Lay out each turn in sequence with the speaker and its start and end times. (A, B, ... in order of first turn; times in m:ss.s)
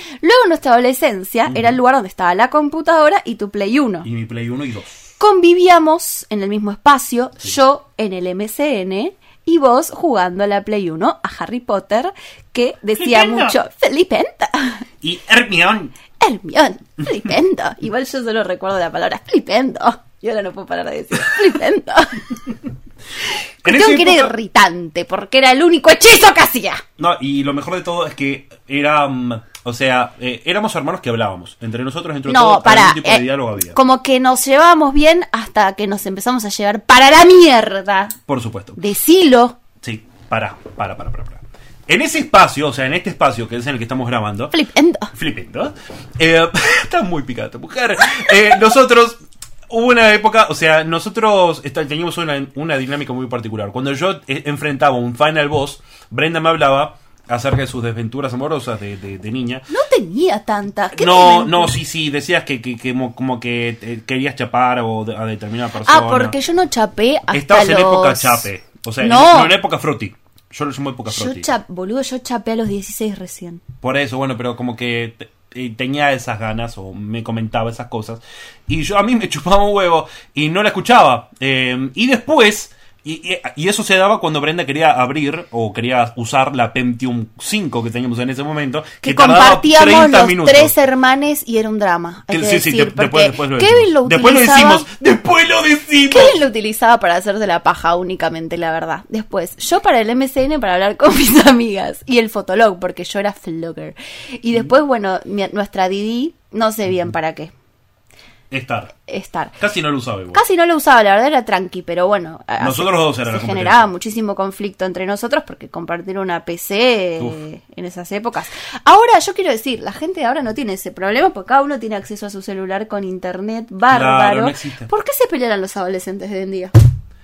0:00.2-0:04.1 A
0:01.5-0:01.8 B
0:04.0-0:05.0 B
0:05.2-0:14.9 A
0:13.0-0:13.6 B
0:15.0-0:16.0 B
0:16.2-0:22.4 A
0:23.6-0:24.3 B
0:23.6-0:26.8 A
0:27.0-0:33.8 B
0:32.3-0:38.2 A
0:38.3-0:38.8 B
0:38.8-0:39.6 A
0:39.8-0:44.5 B
0:44.5-0:45.1 A
0:45.1-0:49.2 B
0:49.7-0:59.6 B
0:59.7-1:01.8 A
1:00.9-1:06.4 B
1:05.8-1:08.4 A
1:07.3-1:11.5 B
1:09.0-1:09.5 A
1:11.1-1:13.6 A
1:13.8-1:30.7 B
1:29.0-1:34.9 A
1:32.3-1:36.4 B
1:36.1-1:47.5 A
1:48.5-1:48.9 B
1:49.1-1:49.6 A
1:49.6-1:50.4 B
1:50.3-2:06.7 A
1:52.6-1:53.9 B
2:03.9-2:04.9 B